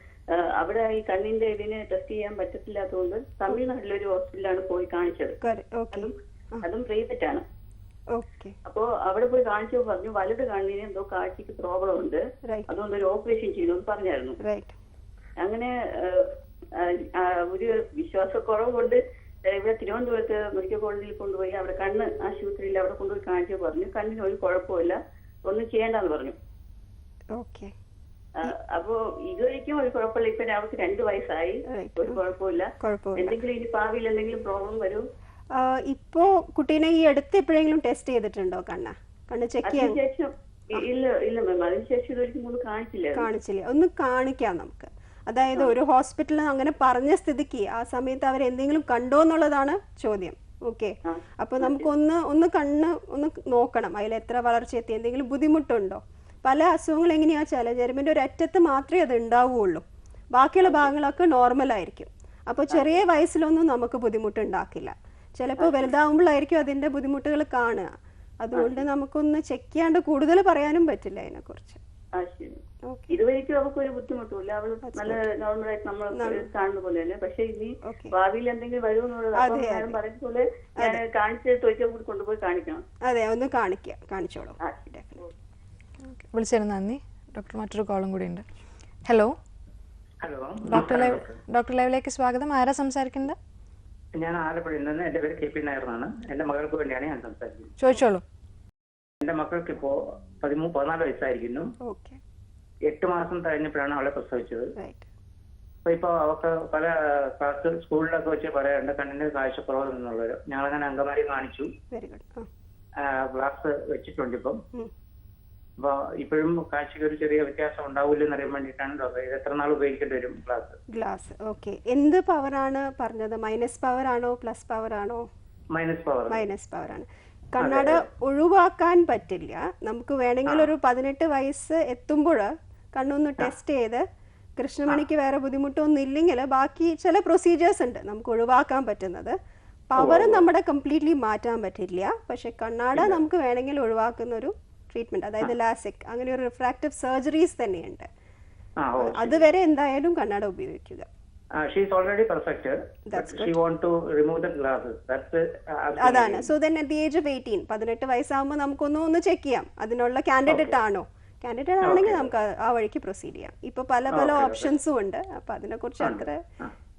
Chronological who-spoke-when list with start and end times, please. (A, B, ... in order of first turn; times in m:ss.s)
0:00.3-0:05.4 A
0:05.4-0:06.6 B
0:05.9-0:07.4 A
0:08.1-0:08.6 B
0:08.6-0:14.4 A
0:12.4-0:12.7 B
0:14.4-0:14.8 B
0:15.4-0:26.4 A
0:27.3-0:27.7 B
0:28.4-0:35.0 A
0:31.6-0:32.2 B
0:32.8-0:33.4 B
0:35.5-0:40.0 B
0:39.6-0:43.3 A
0:43.1-1:11.8 B
0:51.0-0:51.9 A
1:02.7-1:03.0 A
1:05.6-1:05.9 A
1:08.5-1:08.8 A
1:12.2-1:22.8 A
1:12.8-1:13.2 B
1:14.9-1:15.2 B
1:16.1-1:16.4 B
1:17.8-1:18.1 B
1:19.4-1:20.0 B
1:23.0-1:25.2 B
1:24.6-1:25.3 A
1:26.0-1:28.4 C
1:29.1-1:29.3 C
1:30.2-1:31.4 D
1:30.6-1:33.4 C
1:34.2-1:37.7 D
1:37.8-1:38.2 C
1:39.2-1:41.7 D
1:41.8-1:42.2 B
1:42.9-1:44.7 D
1:44.8-1:45.1 B
1:45.8-1:51.7 D
1:51.9-1:52.5 B
1:53.0-1:54.6 D
1:55.8-2:00.8 D
2:00.9-2:05.3 B
2:05.7-2:06.4 D
2:06.3-2:14.0 B
2:07.6-2:08.0 D
2:14.6-2:19.4 B
2:19.9-2:28.1 B
2:28.8-2:29.4 D
2:29.0-2:31.1 B
2:31.6-2:36.5 D
2:33.1-2:33.6 B
2:36.0-2:46.4 B
2:41.8-2:42.2 D
2:44.1-2:44.7 D
2:46.0-2:46.7 D